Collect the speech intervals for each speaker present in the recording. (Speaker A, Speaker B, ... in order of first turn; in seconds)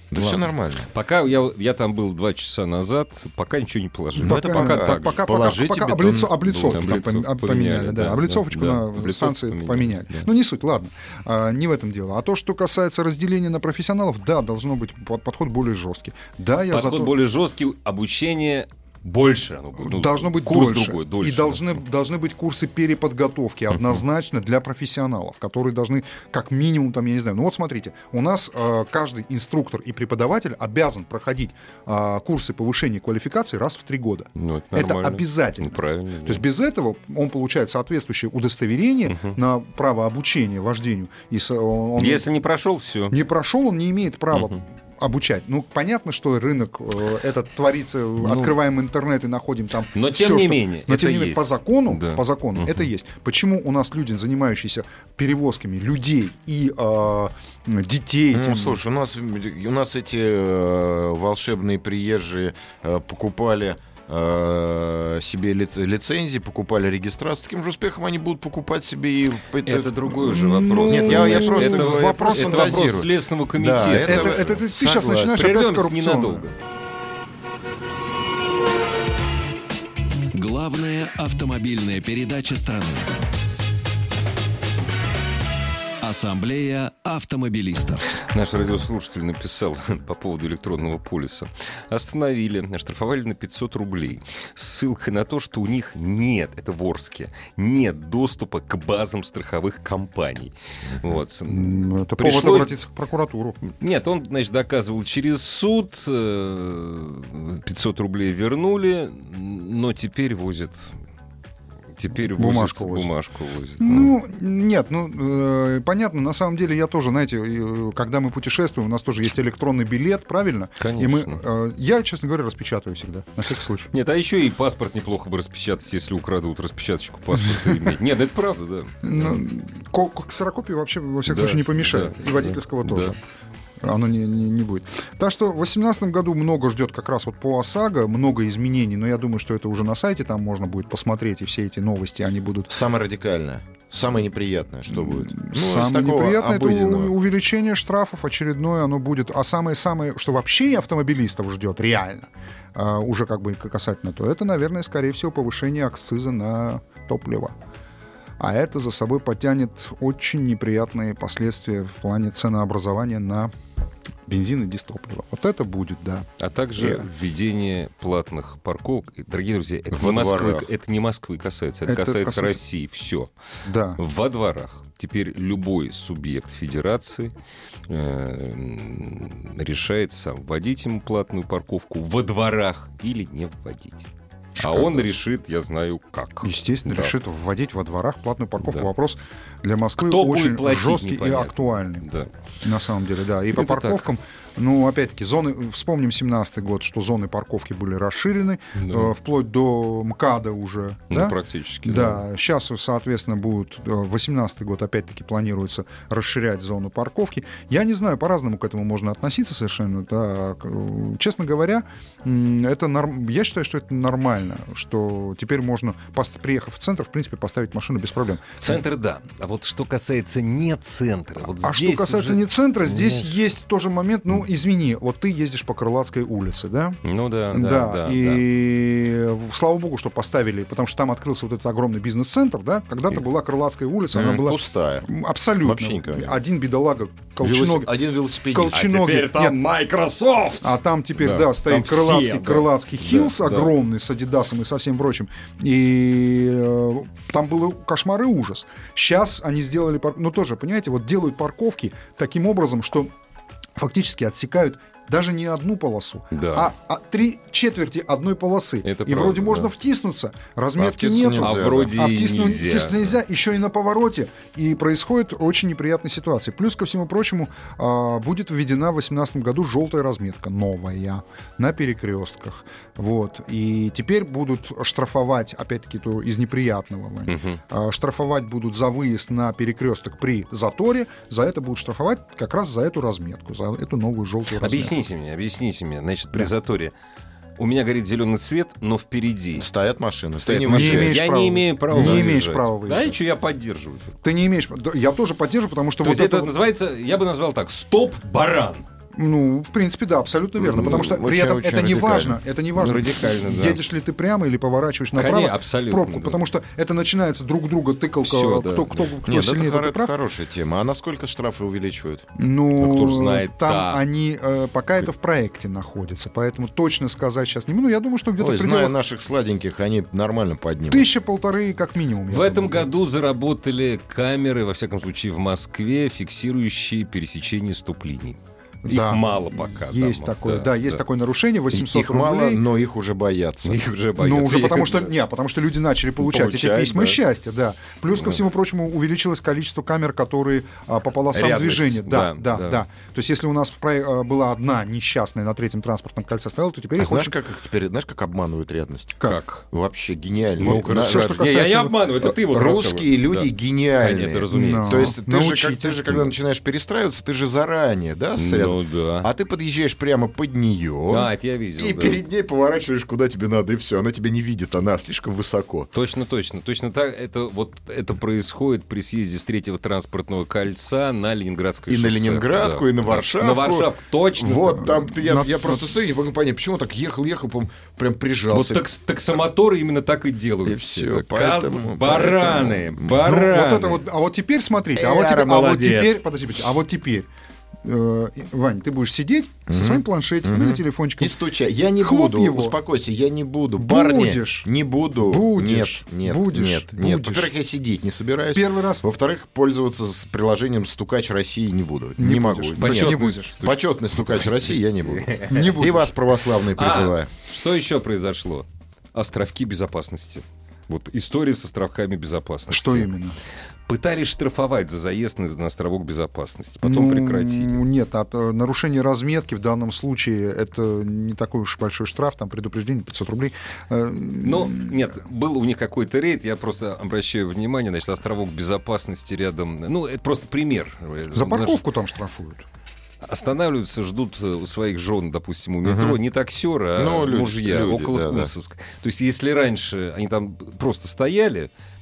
Speaker A: 0.1-0.9, 4.2-7.2, 58.3-70.1, 70.8-75.4, 142.7-147.1, 169.9-170.7, 234.1-235.1, 235.6-236.4, 237.4-238.8, 260.8-261.9, 289.6-291.2, 291.9-292.3, 300.6-302.4, 309.2-312.2, 318.4-321.1, 331.7-333.8, 346.9-349.2, 349.7-351.4, 352.2-365.9, 371.9-378.9, 380.6-383.3, 385.0-386.1, 389.7-407.3, 435.8-436.2, 436.9-438.5
Speaker B: 0.2-5.2, 6.7-10.2, 16.7-21.8, 34.4-36.4, 39.1-39.4, 42.0-43.1, 44.3-44.6, 48.2-48.5, 49.9-52.9, 69.6-74.4, 75.3-76.5, 88.2-102.8, 103.7-110.9, 112.0-114.2, 120.8-121.4, 123.9-129.4, 131.3-133.1, 166.4-173.3, 174.0-177.3, 177.9-187.1, 188.6-188.9, 190.0-192.3, 193.5-194.1, 198.8-199.1, 201.1-202.2, 218.6-222.4, 227.0-228.4, 238.7-243.7, 256.3-256.7, 258.8-259.7, 261.3-263.1, 277.3-277.6, 284.6-286.9, 287.6-289.6, 290.4-294.1, 296.0-298.9, 302.7-303.8, 305.1-306.4, 308.2-309.1, 312.8-314.0, 322.3-331.0, 333.6-335.1, 336.2-337.2, 341.3-342.8, 349.2-349.6, 350.6-355.1, 358.4-359.3, 361.1-362.2, 365.9-374.9, 378.5-384.0, 385.3-386.1, 402.8-405.7, 406.7-413.1, 413.9-417.8, 424.4-431.8, 433.2-441.7
Speaker C: 4.2-17.1, 19.8-42.2, 43.1-58.8, 70.2-72.8, 74.0-76.5, 101.5-103.6, 112.3-113.1, 113.8-123.9, 127.4-127.9, 129.0-133.2, 133.8-142.7, 144.9-157.5, 158.4-163.5, 164.2-167.1, 171.8-172.6, 173.6-174.0, 184.6-185.1, 186.4-218.8, 221.6-227.0, 227.5-237.9, 238.4-239.6, 240.6-253.1, 253.8-285.0, 290.7-293.2, 294.2-296.5, 299.1-310.1, 312.4-319.0, 320.9-322.9, 328.8-332.6, 334.2-347.4, 350.6-351.9, 354.5-356.3, 374.8-375.9, 383.2-387.3, 387.8-391.4, 392.0-392.8, 393.8-394.7, 395.2-397.5, 398.5-399.0, 402.2-403.5, 405.5-406.1, 412.7-413.4, 416.8-425.1, 431.3-432.6
Speaker D: 80.3-83.1, 86.0-88.2